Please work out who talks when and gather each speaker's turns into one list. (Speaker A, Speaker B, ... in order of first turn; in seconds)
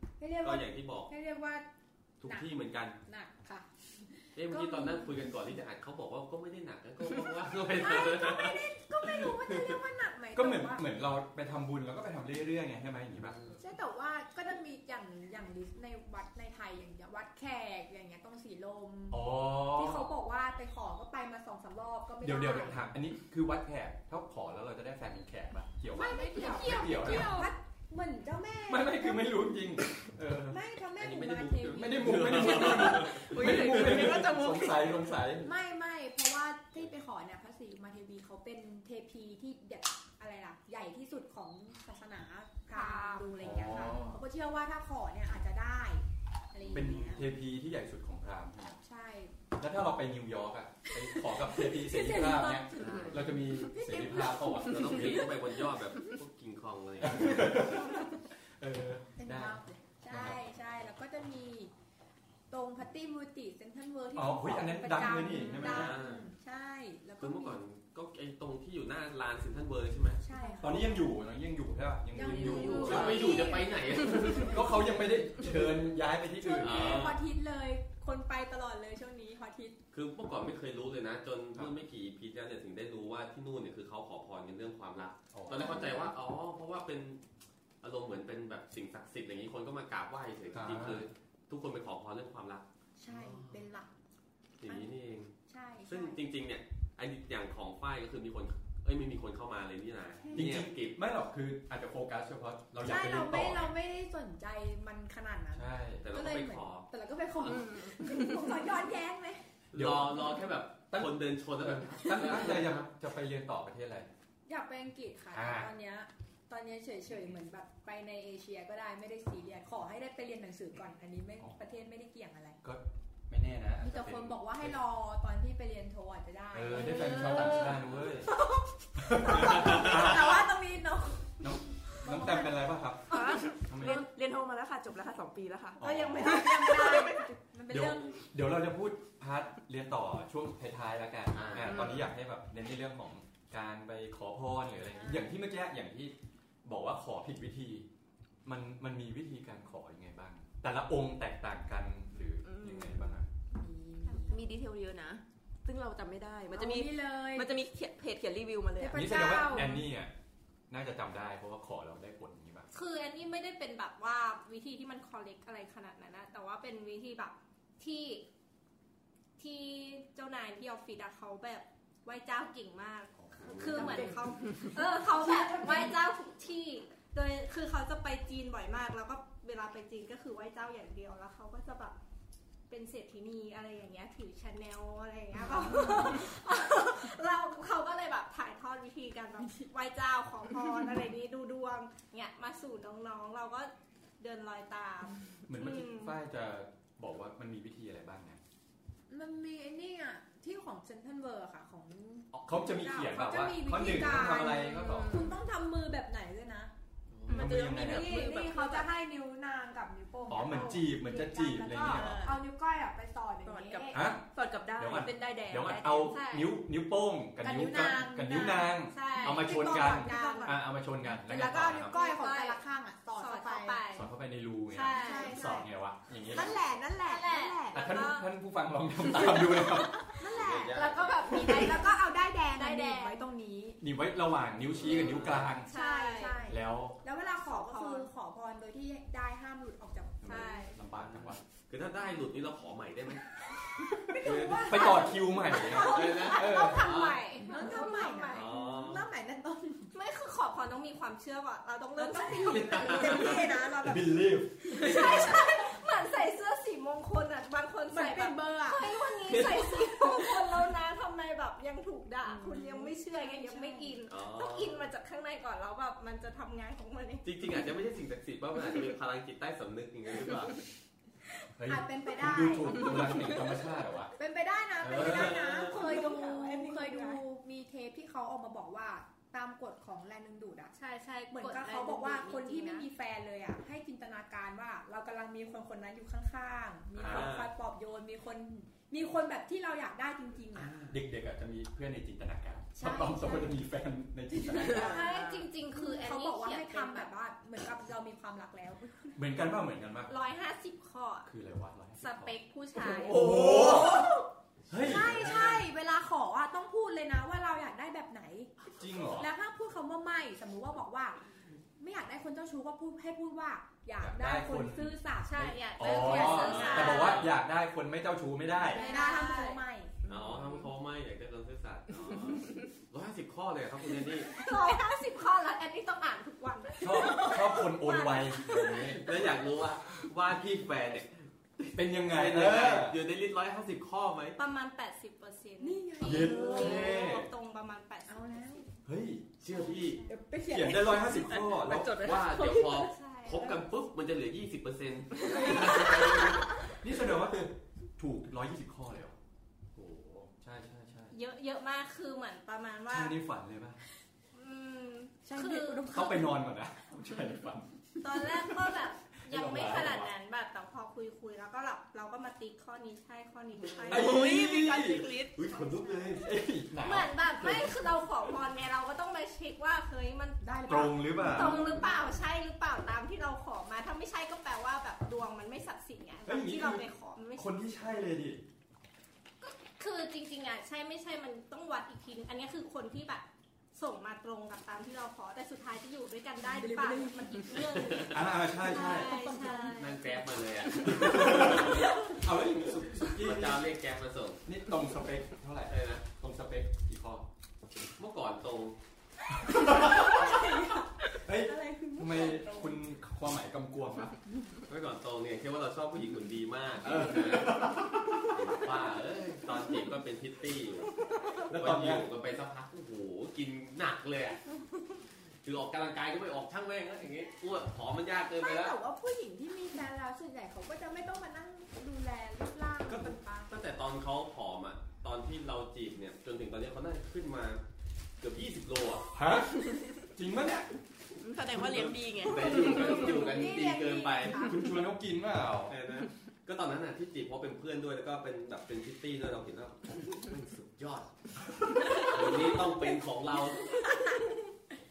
Speaker A: 0.2-1.6, 2.2-2.5, 3.0-3.7, 4.2-5.1, 7.8-10.8, 13.6-22.9, 25.9-29.8, 30.5-32.6, 35.4-46.0, 46.6-47.2, 48.8-49.3, 51.1-55.1, 59.2-61.7, 62.5-67.6, 70.2-71.1, 72.1-74.7, 76.4-79.8, 85.5-86.1, 93.0-93.9, 94.6-94.9, 95.5-96.2, 100.2-100.5, 102.8-109.4, 114.5-122.6, 123.8-127.7, 128.4-134.0, 135.8-138.2, 144.9-145.3, 153.5-154.4, 156.5-157.5, 158.8-159.8, 173.8-174.2, 175.2-175.9, 199.1-206.7, 207.6-214.1, 217.4-220.6, 221.2-223.8, 224.9-225.7, 226.3-227.8, 230.1-233.8, 235.7-240.7, 243.8-246.6, 247.4-249.9, 251.9-255.6, 257.9-260.5, 262.2-264.0, 271.6-273.1, 274.2-280.7, 281.3-290.7, 292.7-293.6, 294.6-299.2, 302.9-304.2, 304.8-308.5, 309.1-311.2, 311.8-317.1, 318.7-319.9, 326.9-327.9, 335.6-337.0, 338.1-338.7, 340.0-341.4, 345.3-345.9, 355.2-356.3, 370.4-372.0, 386.4-387.5, 388.6-389.9, 391.4-392.2, 399.6-400.9, 401.4-402.8, 418.4-423.5, 432.4-434.6, 443.7-444.3
Speaker B: 0.4-1.1, 2.2-3.0, 4.3-9.8, 13.2-13.6, 31.0-33.8, 46.6-47.2, 52.8-53.2, 54.6-57.7, 65.5-66.3, 67.2-70.2, 72.2-74.8, 76.6-77.2, 79.9-87.2, 87.8-93.6, 94.6-95.3, 95.9-101.0, 106.0-106.8, 109.7-112.9, 127.8-128.2, 141.3-142.0, 173.4-174.1, 207.1-207.5, 230.3-231.6, 234.8-235.5, 241.2-243.2, 244.2-245.0, 245.7-247.2, 248.3-249.1, 252.5-253.4, 264.1-264.8, 267.2-270.6, 274.8-275.9, 287.0-287.5, 290.5-291.0, 316.1-317.4, 320.1-324.4, 329.0-334.4, 339.4-340.1, 341.9-346.5, 365.3-366.3, 387.6-388.1, 389.6-391.9, 393.0-394.4, 395.7-396.0, 398.0-398.8, 404.7-407.7, 408.3-410.9, 411.5-414.4, 415.4-418.8, 422.9-427.6, 428.2-429.1, 431.7-434.6, 435.7-441.1, 441.9-443.8
Speaker C: 10.3-13.4, 19.1-20.1, 22.2-27.4, 28.7-30.6, 31.7-35.5, 43.4-44.2, 46.7-48.8, 49.6-55.3, 57.0-60.4, 64.1-66.0, 70.6-73.2, 74.4-77.1, 85.3-85.8, 90.5-91.1, 100.3-103.7, 105.5-106.0, 109.7-110.3, 110.9-114.1, 115.3-115.7, 122.6-124.7, 126.5-128.3, 128.9-130.5, 131.4-134.0, 135.8-136.5, 137.7-147.9, 148.4-153.3, 158.9-160.1, 160.7-162.7, 173.2-174.1, 195.5-198.4, 202.3-205.3, 207.3-208.3, 210.3-212.2, 213.9-222.0, 223.9-226.6, 227.7-230.2, 233.8-235.7, 236.5-237.0, 240.2-241.4, 244.7-247.0, 253.8-255.3, 271.6-274.1, 274.8-275.4, 287.0-287.3, 290.9-295.1, 299.1-300.1, 301.2-304.1, 304.7-305.5, 308.8-309.3, 314.0-315.0, 315.8-318.9, 326.8-329.0, 331.7-333.0, 336.0-337.3, 338.8-339.3, 340.5-342.1, 346.7-349.2, 349.7-351.1, 352.9-353.8, 355.9-358.4, 359.2-360.1, 363.9-365.2, 366.2-367.7, 370.7-371.7, 376.2-378.4, 388.1-389.4, 390.8-393.6, 394.4-397.2, 399.5-400.4, 401.2-404.2, 406.8-408.5, 411.5-412.1, 429.1-430.7, 434.3-435.7
Speaker D: 26.1-27.5, 42.7-43.8, 46.5-47.1, 70.3-70.6, 72.4-73.1, 127.0-127.5, 154.1-154.4, 162.7-168.2, 169.4-181.9, 182.7-196.2, 216.1-216.5, 218.9-220.6, 221.6-222.6, 223.1-224.1, 224.7-225.4, 226.5-228.3, 230.7-232.0, 232.5-233.3, 235.1-236.5, 237.4-238.1, 240.2-240.8, 245.5-248.7, 249.9-253.7, 254.7-267.3, 275.0-277.2, 280.7-282.9, 294.7-297.1, 300.1-301.3, 302.0-303.4, 315.2-317.2, 318.6-319.6, 324.3-328.9, 334.4-338.6, 342.8-343.6, 351.1-353.1, 354.3-356.0, 358.0-364.3, 366.8-377.5, 379.4-390.3
Speaker E: 26.3-27.1, 32.4-35.0, 133.1-137.3, 141.7-142.0, 152.4-153.2, 154.2-159.6, 204.2-205.3, 207.3-208.9, 210.3-210.8, 211.8-212.4, 213.4-216.2, 294.6-295.4, 320.1-320.6, 340.9-342.9, 345.3-345.9, 363.9-365.5, 431.2-433.4